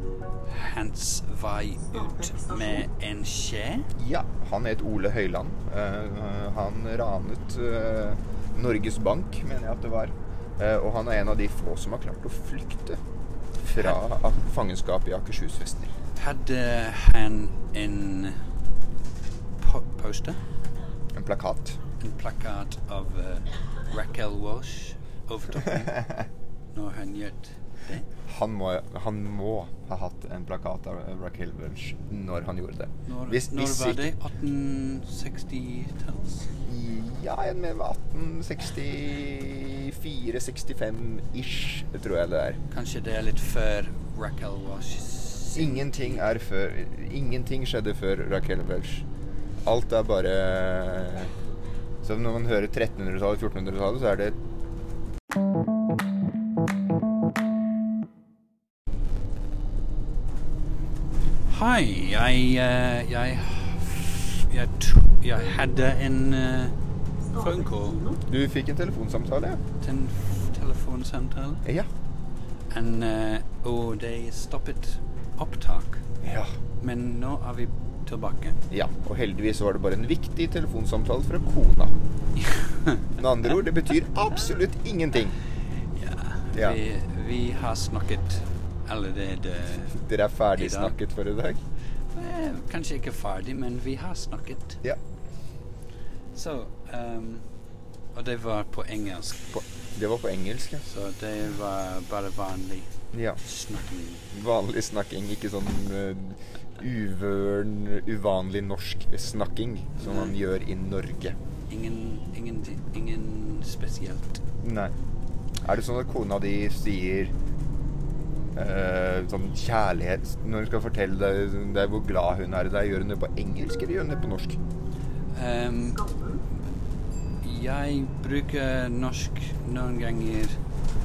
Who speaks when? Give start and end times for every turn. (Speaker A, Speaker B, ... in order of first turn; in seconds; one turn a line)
Speaker A: 0.5-3.9
Speaker B: 4.0-13.0
Speaker B: 13.6-15.9
Speaker A: 16.2-18.4
Speaker A: 19.6-20.4
Speaker B: 21.1-21.8
Speaker A: 22.0-25.9
Speaker B: 25.7-26.3
Speaker A: 26.7-28.1
Speaker B: 28.3-34.1
Speaker A: 33.1-36.5
Speaker B: 36.6-42.6
Speaker A: 42.7-46.3
Speaker B: 45.5-49.0
Speaker B: 49.6-51.3
Speaker B: 52.0-54.4
Speaker A: 61.5-66.8
Speaker A: 67.3-68.2
Speaker B: 68.3-69.6
Speaker A: 69.8-71.7
Speaker A: 72.7-76.0
Speaker B: 76.2-76.5
Speaker A: 76.8-78.6
Speaker B: 78.7-81.9
Speaker A: 82.4-83.1
Speaker B: 83.2-85.4
Speaker A: 86.0-90.0
Speaker B: 86.5-86.8
Speaker B: 89.9-91.6
Speaker A: 90.5-91.0
Speaker A: 92.1-94.8
Speaker A: 96.3-97.5
Speaker A: 98.1-99.6
Speaker B: 99.9-100.9
Speaker A: 100.8-102.9
Speaker B: 103.1-103.4
Speaker A: 103.4-104.3
Speaker B: 104.3-111.4
Speaker A: 110.0-110.3
Speaker A: 111.7-114.4
Speaker B: 114.6-114.9
Speaker B: 115.6-117.3
Speaker B: 118.5-124.6
Speaker A: 125.3-126.5
Speaker A: 127.4-130.6